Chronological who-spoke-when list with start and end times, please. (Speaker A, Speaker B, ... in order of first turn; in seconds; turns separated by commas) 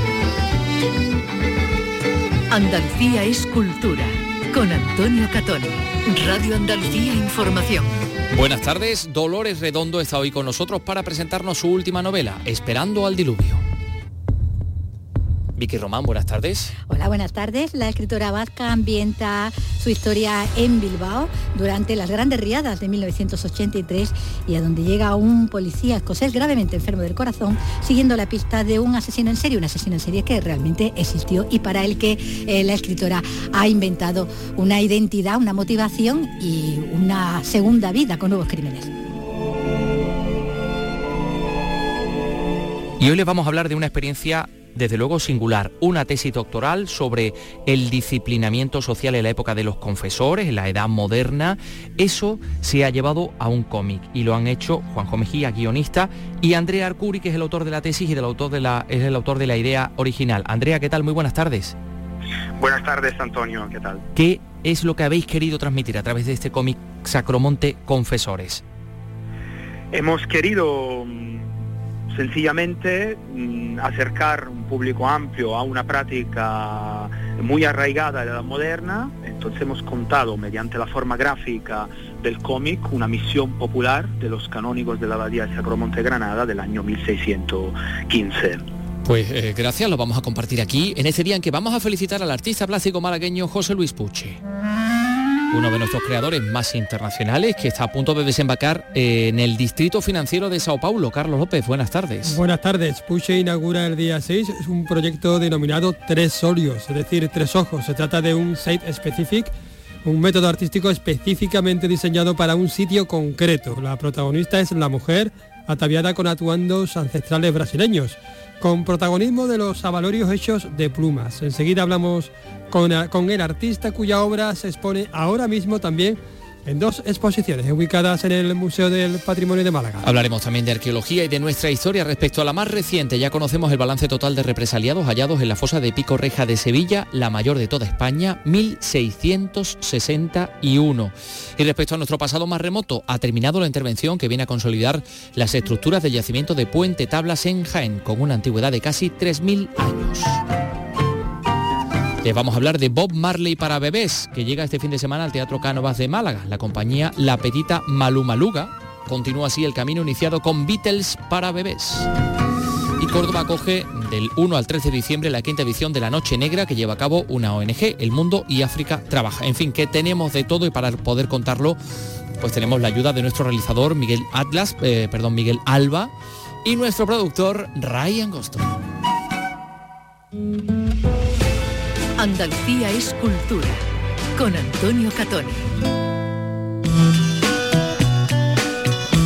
Speaker A: 2.5-8.1, Speaker B: 8.3-13.6, Speaker B: 15.6-16.7, Speaker C: 16.9-38.9, Speaker B: 43.0-61.8, Speaker D: 62.6-64.0, Speaker B: 64.1-68.6, Speaker D: 69.9-71.5, Speaker D: 72.1-88.6, Speaker B: 89.0-94.4, Speaker B: 95.5-102.4, Speaker E: 102.2-109.5, Speaker E: 110.0-130.1, Speaker B: 130.0-150.4, Speaker B: 152.2-162.1, Speaker B: 163.0-171.8, Speaker B: 172.4-176.1, Speaker B: 176.6-178.8, Speaker A: 182.2-183.8, Speaker A: 184.4-185.7